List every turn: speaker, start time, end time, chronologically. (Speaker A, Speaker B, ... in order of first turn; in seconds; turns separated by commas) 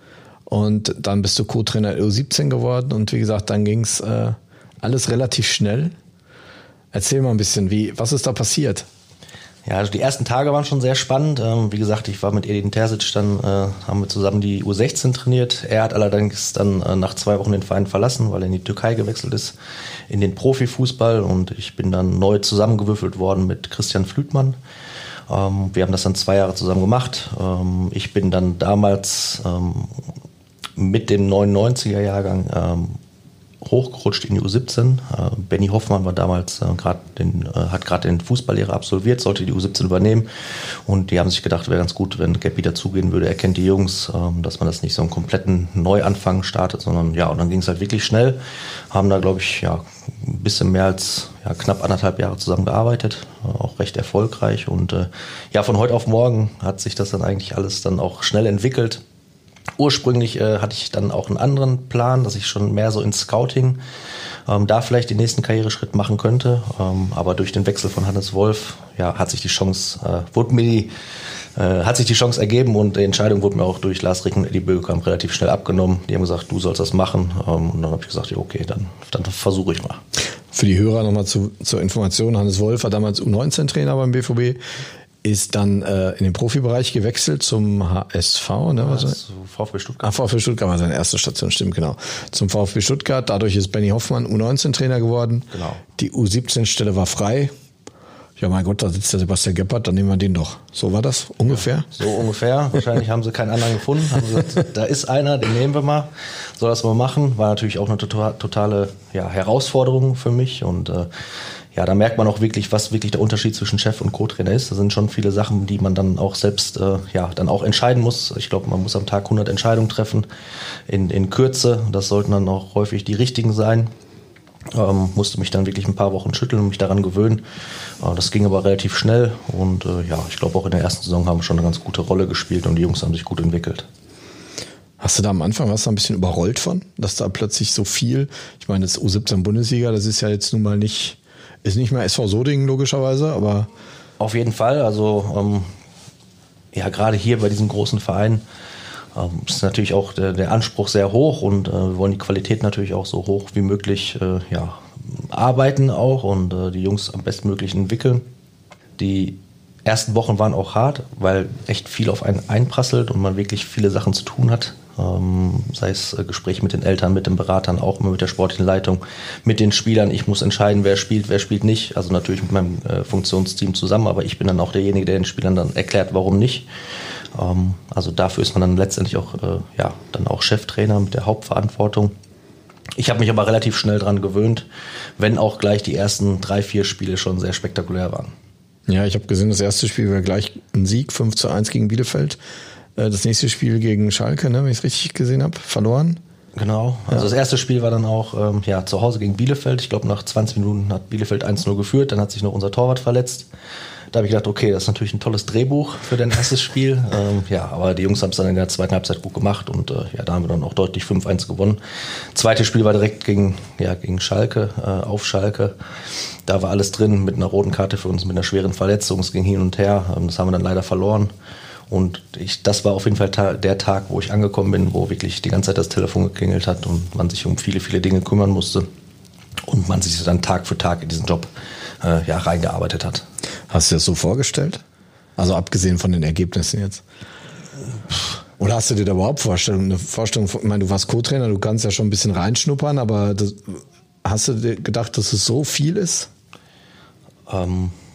Speaker A: 0.5-5.9, Speaker A: 6.9-8.8, Speaker B: 9.6-19.6, Speaker B: 20.1-24.6, Speaker B: 25.3-30.0, Speaker B: 30.8-33.0, Speaker B: 33.6-48.4, Speaker B: 48.9-59.0, Speaker B: 59.8-63.8, Speaker B: 64.5-70.9, Speaker B: 71.5-80.0, Speaker A: 80.5-84.6, Speaker A: 85.2-89.2, Speaker B: 88.8-90.1, Speaker A: 90.0-97.5, Speaker B: 95.5-95.8, Speaker A: 98.4-101.9, Speaker B: 101.5-111.1, Speaker B: 111.7-120.3, Speaker B: 120.9-123.9, Speaker B: 124.7-127.4, Speaker B: 128.0-133.9, Speaker A: 135.0-143.7, Speaker B: 144.2-145.7, Speaker B: 146.7-148.4, Speaker B: 149.1-158.2, Speaker B: 159.0-176.7, Speaker B: 177.3-182.1, Speaker B: 183.0-184.7, Speaker B: 185.2-188.3, Speaker A: 188.9-192.4, Speaker A: 192.9-196.2, Speaker B: 196.6-203.5, Speaker B: 204.1-211.8, Speaker B: 212.3-215.8, Speaker B: 216.4-221.3, Speaker B: 221.9-228.9, Speaker B: 229.6-233.2, Speaker A: 233.7-234.8, Speaker A: 235.4-237.0, Speaker A: 238.6-246.3, Speaker B: 247.5-247.9